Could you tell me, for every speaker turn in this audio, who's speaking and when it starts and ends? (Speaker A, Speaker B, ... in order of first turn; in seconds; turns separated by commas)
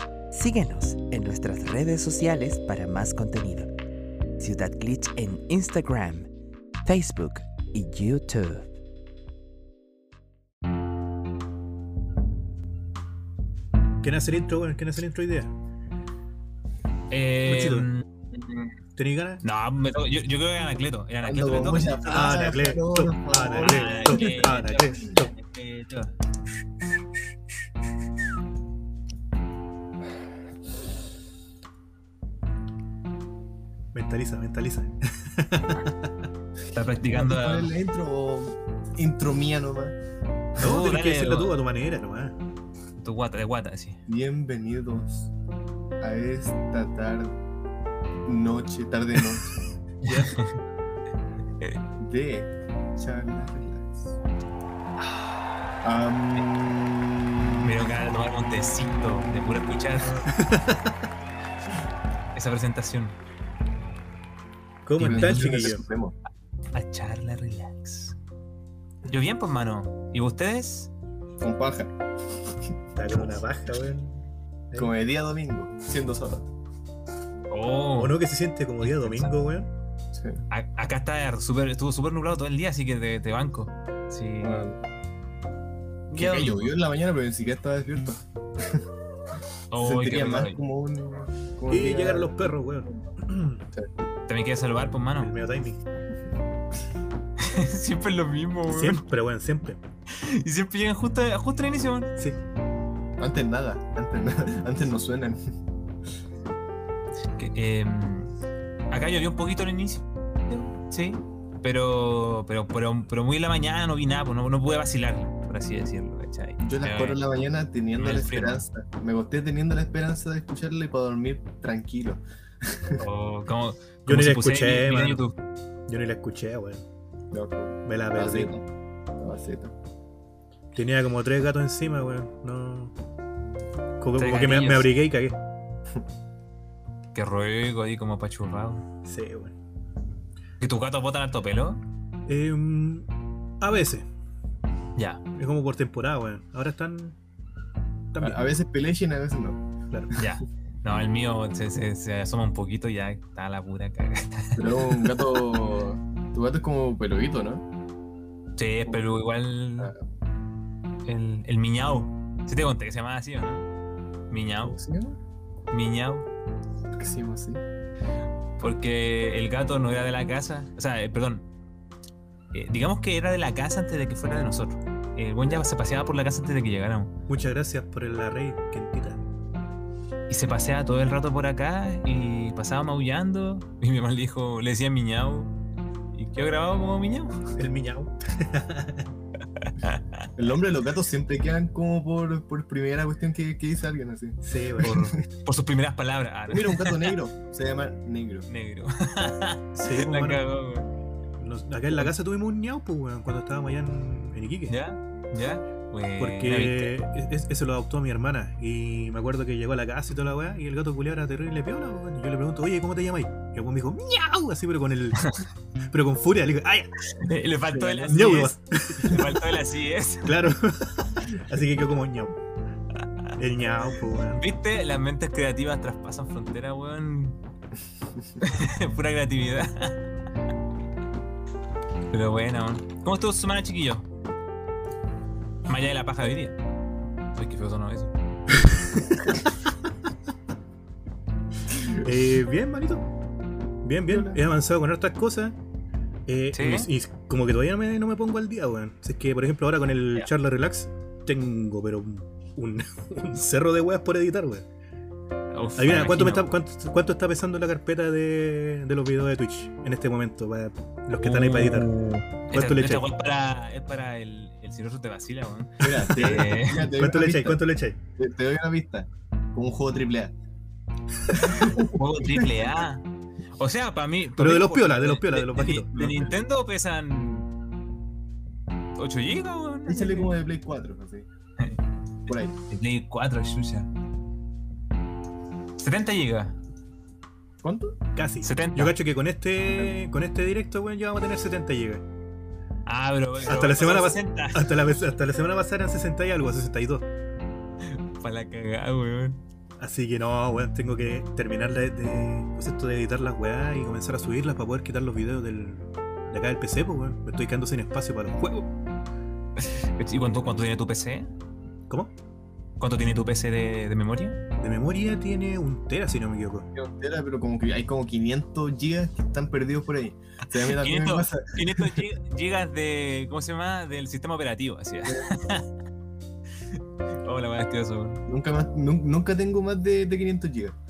Speaker A: 0.3-3.7, Speaker A: 4.4-6.3, Speaker A: 6.8-8.7, Speaker B: 14.0-15.5, Speaker C: 17.1-18.7, Speaker B: 17.4-17.9, Speaker B: 19.0-19.4, Speaker C: 19.4-22.4, Speaker D: 21.2-24.6, Speaker B: 22.1-25.3, Speaker C: 23.5-26.1, Speaker B: 33.9-36.3, Speaker C: 36.7-37.7, Speaker D: 37.1-40.0, Speaker C: 40.6-41.6, Speaker B: 40.6-42.4, Speaker C: 43.0-44.0, Speaker D: 44.1-45.3, Speaker D: 46.0-47.4, Speaker D: 48.3-49.6, Speaker C: 50.0-50.5, Speaker B: 50.1-50.4, Speaker D: 52.0-54.1, Speaker D: 55.8-57.8, Speaker C: 57.6-60.3, Speaker B: 60.3-61.0, Speaker C: 62.3-63.1, Speaker B: 64.8-65.8, Speaker D: 65.0-66.2, Speaker C: 65.1-65.6, Speaker C: 66.7-68.2, Speaker C: 69.1-70.9, Speaker D: 71.4-71.9, Speaker B: 73.0-74.9, Speaker D: 74.8-76.5, Speaker C: 77.5-78.2, Speaker B: 78.0-79.7, Speaker C: 78.8-79.3, Speaker D: 80.2-80.4, Speaker C: 80.5-84.7, Speaker D: 84.4-84.8, Speaker C: 86.1-86.8, Speaker D: 86.1-88.8, Speaker C: 89.7-90.6, Speaker D: 89.8-92.5, Speaker B: 91.7-93.6, Speaker C: 94.3-95.3, Speaker B: 95.2-95.8, Speaker C: 97.4-99.0, Speaker B: 98.7-99.8, Speaker C: 100.1-102.1, Speaker D: 103.2-105.4, Speaker C: 107.4-108.3, Speaker C: 108.9-117.2, Speaker D: 116.6-123.0, Speaker C: 118.0-118.7, Speaker C: 123.0-125.4, Speaker B: 124.1-125.3, Speaker B: 125.9-126.8, Speaker D: 127.3-128.6, Speaker B: 127.8-128.6, Speaker D: 129.2-129.7, Speaker B: 130.8-132.9, Speaker B: 134.0-135.4, Speaker C: 134.2-134.9, Speaker C: 137.1-138.8, Speaker B: 139.1-139.5, Speaker C: 140.6-141.8, Speaker B: 142.3-143.1, Speaker B: 143.6-144.1, Speaker C: 145.0-145.2, Speaker B: 145.3-147.2, Speaker B: 148.1-148.4, Speaker D: 148.2-149.6, Speaker C: 150.2-154.6, Speaker D: 154.6-157.6, Speaker C: 158.6-159.9, Speaker C: 161.1-163.7, Speaker C: 164.3-164.8, Speaker D: 164.6-165.2, Speaker C: 165.7-166.3, Speaker D: 167.0-167.6, Speaker C: 168.6-171.5, Speaker C: 172.5-177.1, Speaker B: 177.3-179.2, Speaker C: 180.3-185.5, Speaker C: 186.1-187.4, Speaker B: 187.6-189.1, Speaker C: 189.6-190.2, Speaker D: 190.4-195.1, Speaker B: 194.4-194.9, Speaker C: 194.8-197.2, Speaker D: 196.5-198.5, Speaker C: 198.5-200.9, Speaker B: 199.7-200.4, Speaker B: 201.4-204.8, Speaker C: 204.7-206.9, Speaker B: 206.2-215.3, Speaker B: 215.9-216.9, Speaker C: 217.1-220.3, Speaker B: 217.7-219.4, Speaker D: 217.8-218.4, Speaker B: 220.2-222.3, Speaker B: 223.4-224.4, Speaker C: 224.3-227.4, Speaker C: 228.4-230.1, Speaker C: 232.1-234.1, Speaker C: 235.7-236.6, Speaker C: 237.3-238.1, Speaker B: 238.6-239.3, Speaker B: 242.0-243.1, Speaker B: 243.8-245.6, Speaker D: 244.1-244.4, Speaker B: 246.3-254.7, Speaker C: 246.5-246.9, Speaker C: 255.5-256.5, Speaker B: 255.8-261.9, Speaker C: 261.2-266.9, Speaker B: 262.5-263.1, Speaker D: 265.8-267.6, Speaker B: 265.9-268.0, Speaker D: 268.2-270.4, Speaker D: 271.3-272.5, Speaker C: 271.5-273.1, Speaker C: 273.6-277.5, Speaker B: 274.4-276.3, Speaker C: 279.0-280.4, Speaker D: 279.9-281.3, Speaker D: 282.3-282.6, Speaker C: 282.6-283.9, Speaker C: 285.8-286.6, Speaker D: 287.6-288.0, Speaker B: 288.1-292.0, Speaker C: 288.4-289.0, Speaker D: 289.7-289.9, Speaker C: 292.9-294.7, Speaker B: 293.4-297.1, Speaker C: 297.9-299.4, Speaker B: 299.8-308.7, Speaker C: 309.6-311.3, Speaker C: 312.8-314.4, Speaker B: 314.6-316.7, Speaker D: 316.7-322.0, Speaker C: 320.6-325.7, Speaker C: 327.2-328.2, Speaker D: 328.3-330.8